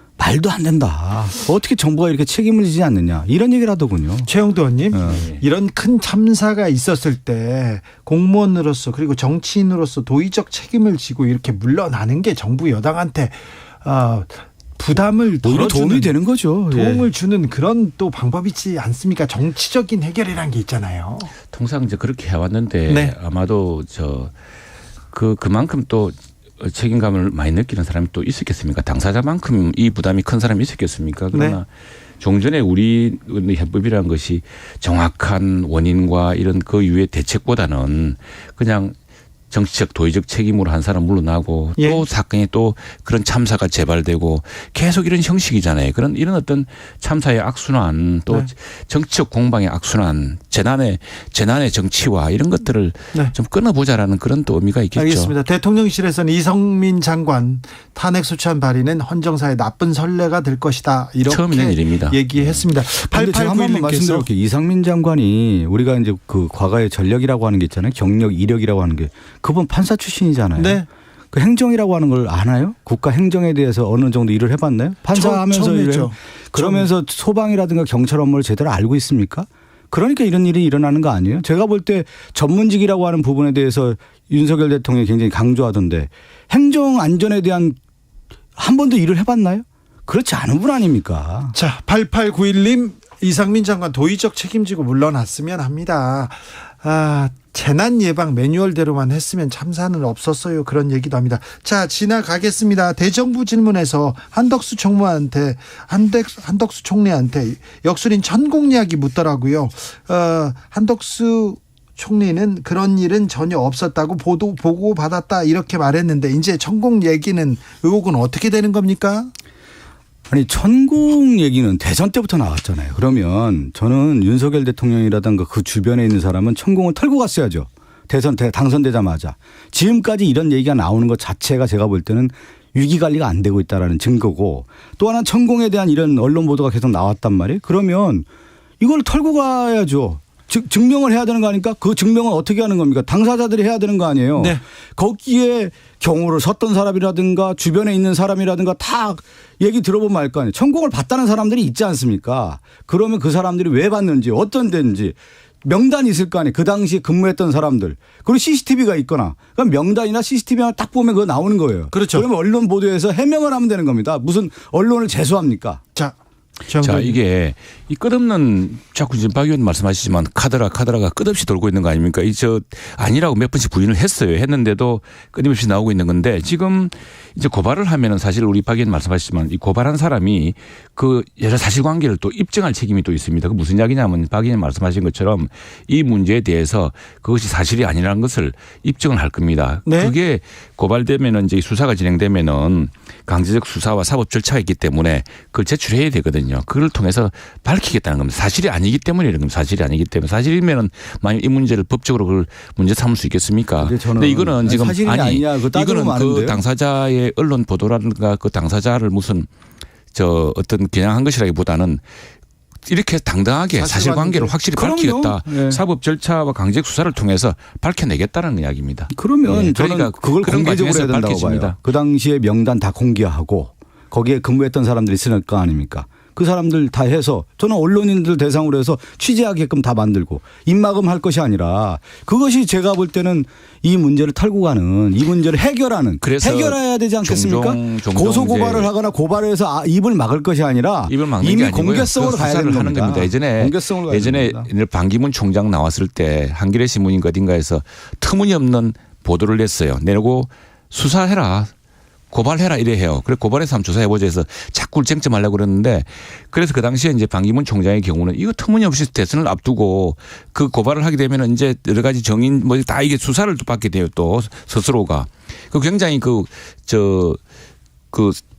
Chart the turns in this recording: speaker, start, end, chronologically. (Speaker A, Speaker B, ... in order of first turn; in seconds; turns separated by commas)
Speaker A: 0.2-4.3, Speaker B: 4.3-16.1, Speaker A: 4.9-5.4, Speaker A: 15.4-17.1, Speaker B: 16.7-21.3, Speaker C: 21.5-24.3, Speaker B: 22.9-23.1, Speaker C: 25.1-31.7, Speaker B: 31.3-31.6, Speaker C: 32.2-39.0, Speaker C: 39.5-55.3, Speaker B: 41.8-42.0, Speaker B: 55.0-64.3, Speaker C: 61.3-62.2, Speaker A: 63.1-87.8, Speaker B: 70.6-70.9, Speaker B: 75.1-76.9, Speaker A: 88.6-91.5, Speaker B: 91.5-119.3, Speaker A: 120.3-138.3, Speaker A: 138.8-165.8, Speaker B: 161.9-162.3, Speaker B: 166.7-167.2, Speaker C: 166.8-209.5, Speaker B: 189.9-190.1, Speaker A: 203.8-206.6, Speaker C: 210.1-212.0, Speaker C: 212.8-221.8, Speaker B: 213.8-214.6, Speaker A: 214.7-215.8, Speaker A: 219.1-244.7, Speaker C: 236.2-238.9, Speaker C: 241.1-251.7, Speaker C: 252.3-267.4, Speaker C: 268.1-268.4